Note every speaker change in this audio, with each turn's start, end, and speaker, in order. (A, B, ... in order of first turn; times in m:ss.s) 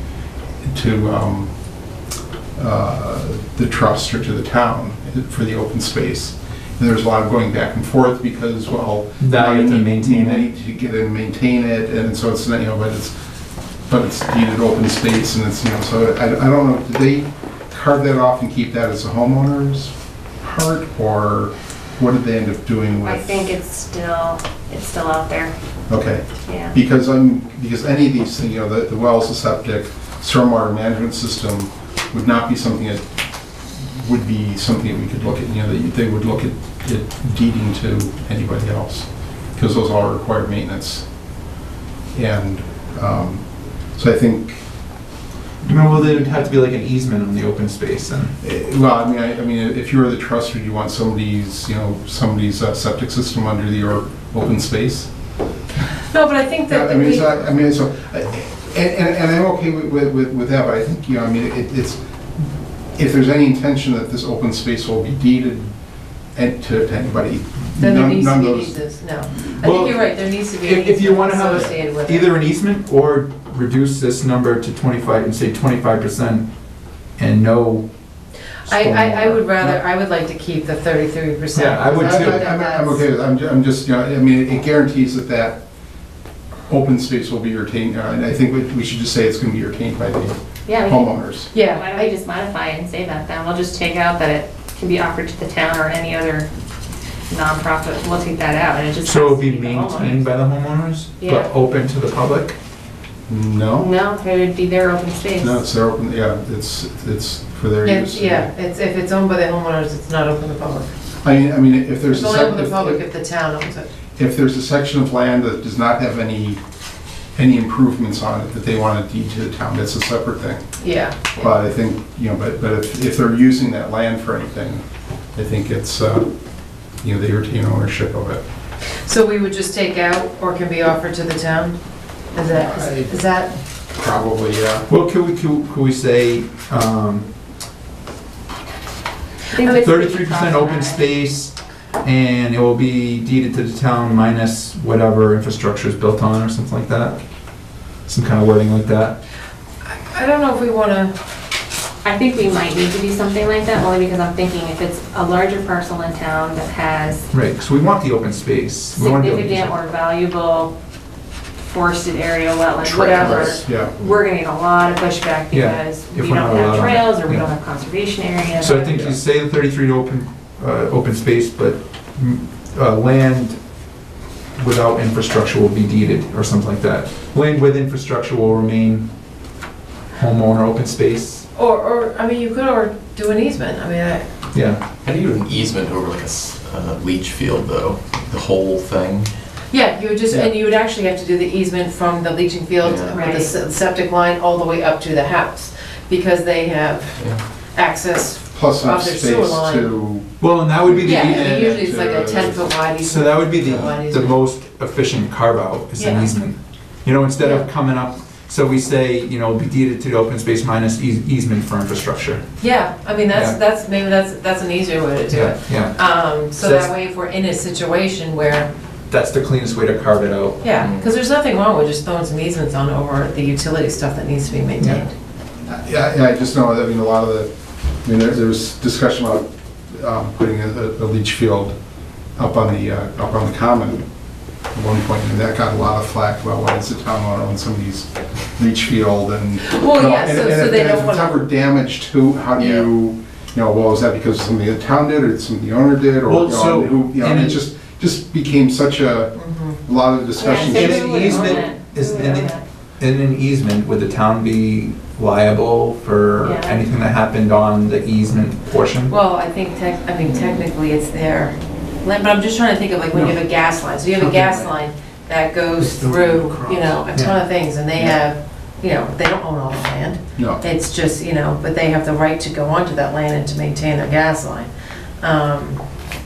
0:00.6-0:01.5 A
0:02.6-0:13.1 A
0:09.2-0:10.5 B
0:13.9-0:23.4 A
0:23.0-0:25.5 C
0:25.9-0:33.1 A
0:26.5-0:26.7 C
0:33.8-0:41.1 A
0:42.1-0:44.7 A
0:45.6-0:48.3 B
0:45.7-0:46.4 A
0:48.4-0:55.1 A
0:56.1-0:57.4 D
0:56.7-1:02.4 A
1:03.0-1:05.7 A
1:06.3-1:08.8 A
1:07.8-1:12.3 D
1:09.6-1:16.5 B
1:17.2-1:17.9 B
1:18.7-1:19.8 B
1:18.7-1:23.0 D
1:21.5-1:22.4 B
1:21.9-1:25.6 A
1:26.7-1:31.5 A
1:30.7-1:36.5 C
1:31.5-1:32.1 D
1:37.3-1:40.3 C
1:39.0-1:42.6 B
1:41.2-1:41.5 C
1:43.3-1:43.9 A
1:43.8-1:45.6 C
1:45.4-1:48.5 A
1:47.8-1:50.9 D
1:51.2-1:53.0 A
1:52.1-1:53.9 D
1:54.2-1:56.6 A
1:57.4-2:00.7 A
2:00.8-2:01.5 D
2:01.2-2:04.8 A
2:05.4-2:06.3 A
2:07.0-2:08.4 A
2:09.0-2:11.8 D
2:12.3-2:13.5 D
2:12.5-2:13.2 A
2:13.9-2:14.9 A
2:14.9-2:17.3 B
2:19.5-2:21.0 C
2:19.6-2:27.2 B
2:28.1-2:29.2 B
2:29.8-2:31.2 D
2:32.0-2:37.2 C
2:37.3-2:39.8 B
2:39.0-2:40.7 C
2:41.6-2:49.1 C
2:42.8-2:43.6 E
2:43.2-2:44.0 A
2:45.5-2:47.5 B
2:48.6-2:53.6 B
2:54.6-2:59.1 B
3:00.2-3:01.5 B
3:01.6-3:04.3 D
3:04.5-3:04.8 B
3:05.0-3:09.3 E
3:09.7-3:20.0 D
3:12.8-3:13.2 E
3:13.1-3:13.5 C
3:18.5-3:22.7 A
3:20.4-3:21.8 B
3:21.0-3:24.4 D
3:23.0-3:32.5 B
3:26.0-3:26.3 D
3:27.4-3:27.7 D
3:32.6-3:38.7 D
3:35.3-3:36.9 B
3:39.1-3:40.8 B
3:40.6-3:45.1 D
3:40.8-3:41.1 E
3:45.7-3:47.5 A
3:48.0-3:51.8 A
3:52.4-3:54.0 A
3:54.7-4:11.6 A
3:59.6-4:01.4 D
4:02.6-4:02.9 E
4:06.3-4:07.6 B
4:09.4-4:09.8 D
4:10.4-4:12.6 C
4:10.6-4:19.1 B
4:16.4-4:16.8 C
4:19.1-4:34.7 D
4:24.2-4:24.7 A
4:25.8-4:27.0 A
4:35.2-4:35.8 D